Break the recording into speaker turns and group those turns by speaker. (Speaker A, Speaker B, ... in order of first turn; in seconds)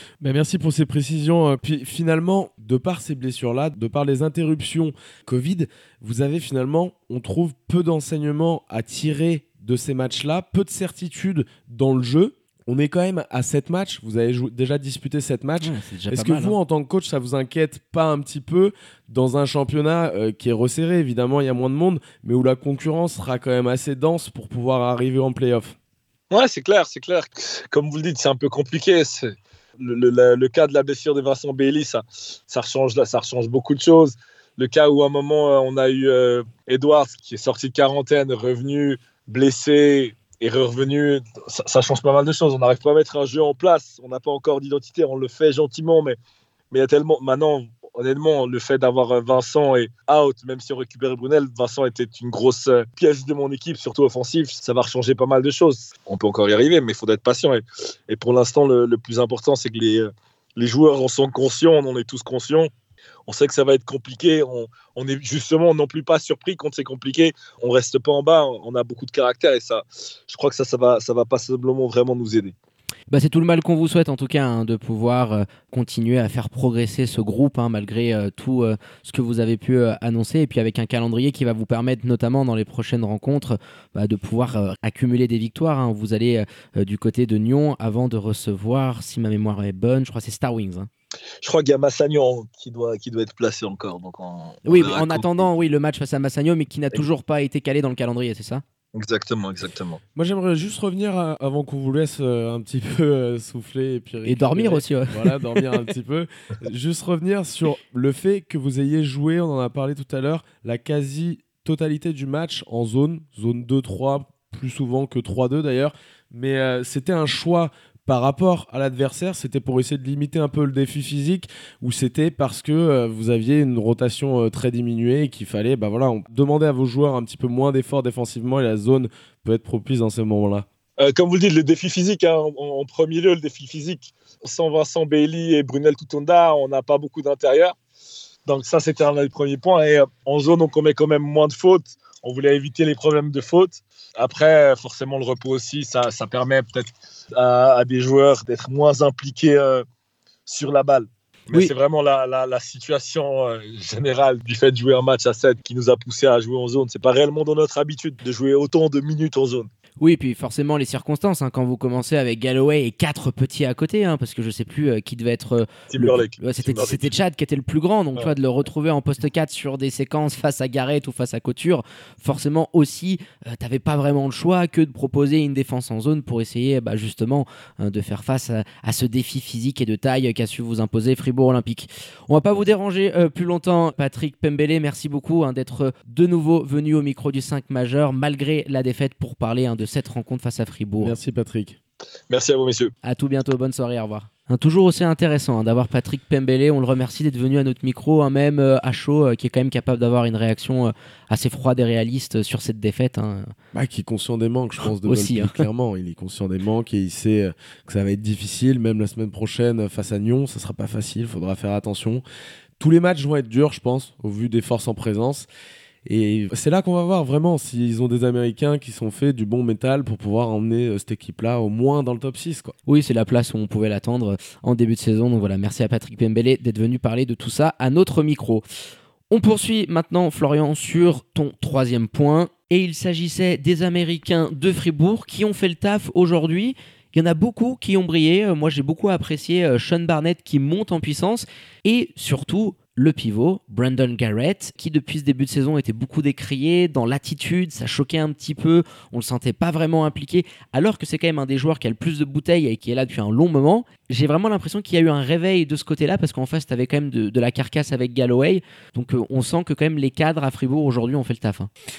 Speaker A: 0.2-25.8, 100.1-130.7, 191.0-191.8, 203.7-212.2, 212.8-215.5, 216.1-222.7
Speaker B: 15.6-16.6, 73.1-90.9, 94.6-98.6, 104.2-105.8, 160.0-191.2, 193.0-203.5, 204.8-205.6, 222.9-228.6, 229.3-261.7
Speaker C: 26.3-46.2, 46.7-62.7, 63.3-72.5, 91.4-95.5, 98.9-100.0, 131.0-137.8, 138.5-149.8, 150.5-159.7, 165.9-167.1, 192.3-192.9